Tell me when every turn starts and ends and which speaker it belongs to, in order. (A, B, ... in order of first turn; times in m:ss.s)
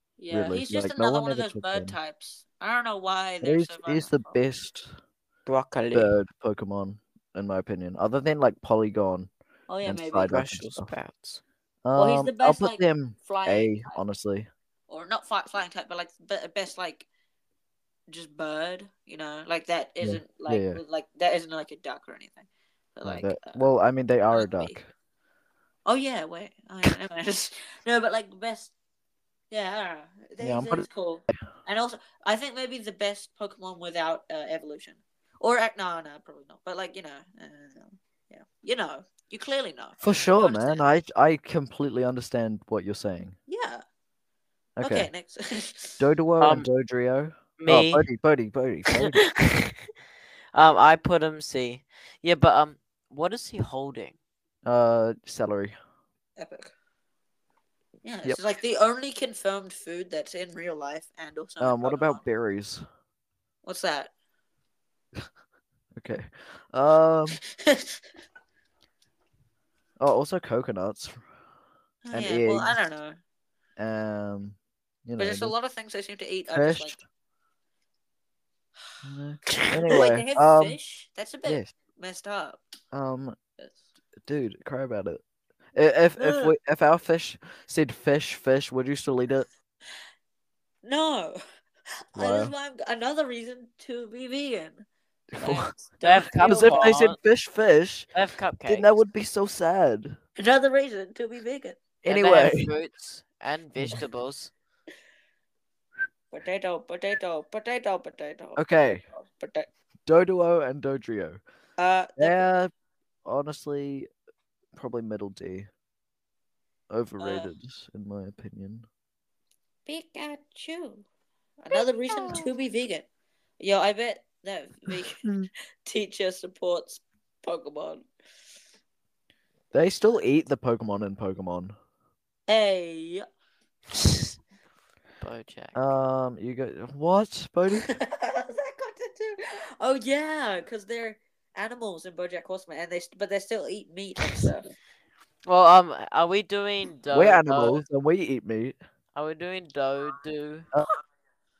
0:00.2-0:04.4 A
0:00.3-0:02.0 B
0:03.4-0:04.9 B
0:05.4-0:06.1 C
0:05.9-0:09.3 B
0:09.7-0:10.4 A
0:09.8-0:10.9 B
0:10.3-0:11.4 C
0:11.8-0:14.5 B
0:12.0-0:14.0 A
0:14.9-0:17.1 A
0:18.1-0:23.6 A
0:20.0-0:20.8 B
0:23.0-0:24.9 B
0:24.3-0:24.8 A
0:25.8-0:28.7 A
0:29.5-0:40.8 A
0:30.4-0:30.9 B
0:40.0-0:43.4 B
0:43.5-0:43.8 A
0:44.8-0:45.1 B
0:44.8-0:46.0 A
0:46.0-0:49.2 B
0:46.4-0:46.7 C
0:47.6-0:48.0 C
0:48.9-0:49.9 C
0:50.5-0:54.2 C
0:54.6-0:55.7 B
0:56.4-0:56.7 A
0:58.0-1:02.2 A
1:01.6-1:02.8 B
1:03.6-1:04.1 A
1:06.0-1:07.4 B
1:07.5-1:08.0 A
1:10.0-1:11.3 B
1:12.0-1:13.2 A
1:12.1-1:12.7 B
1:13.8-1:15.5 B
1:15.2-1:17.0 A
1:16.5-1:17.0 B
1:19.0-1:20.8 B
1:19.8-1:22.6 A
1:22.9-1:23.4 B
1:24.2-1:25.2 B
1:25.7-1:29.5 B
1:26.2-1:26.5 A
1:30.8-1:31.4 A
1:32.1-1:34.8 A
1:32.2-1:32.5 B
1:35.3-1:35.8 B
1:35.4-1:36.8 A
1:36.0-1:37.2 C
1:36.4-1:38.1 B
1:38.1-1:39.0 C
1:38.6-1:40.2 B
1:40.4-1:41.8 A
1:42.0-1:42.7 B
1:42.1-1:44.5 C
1:46.3-1:49.7 A
1:48.6-1:49.0 B
1:50.0-1:51.4 B
1:51.8-1:52.5 A
1:52.2-1:52.7 B
1:53.2-1:54.1 B
1:54.7-1:55.7 B
1:56.9-1:58.9 B
1:57.2-1:57.5 A
1:59.8-2:01.0 A
2:01.6-2:03.0 A
2:02.2-2:02.4 B
2:03.6-2:05.3 A
2:05.8-2:08.0 A
2:09.7-2:11.7 B
2:12.5-2:13.2 A
2:14.0-2:14.3 C
2:15.2-2:15.8 C
2:15.7-2:17.9 B
2:17.9-2:24.7 A
2:25.4-2:27.8 C
2:27.1-2:28.8 B
2:29.1-2:30.7 C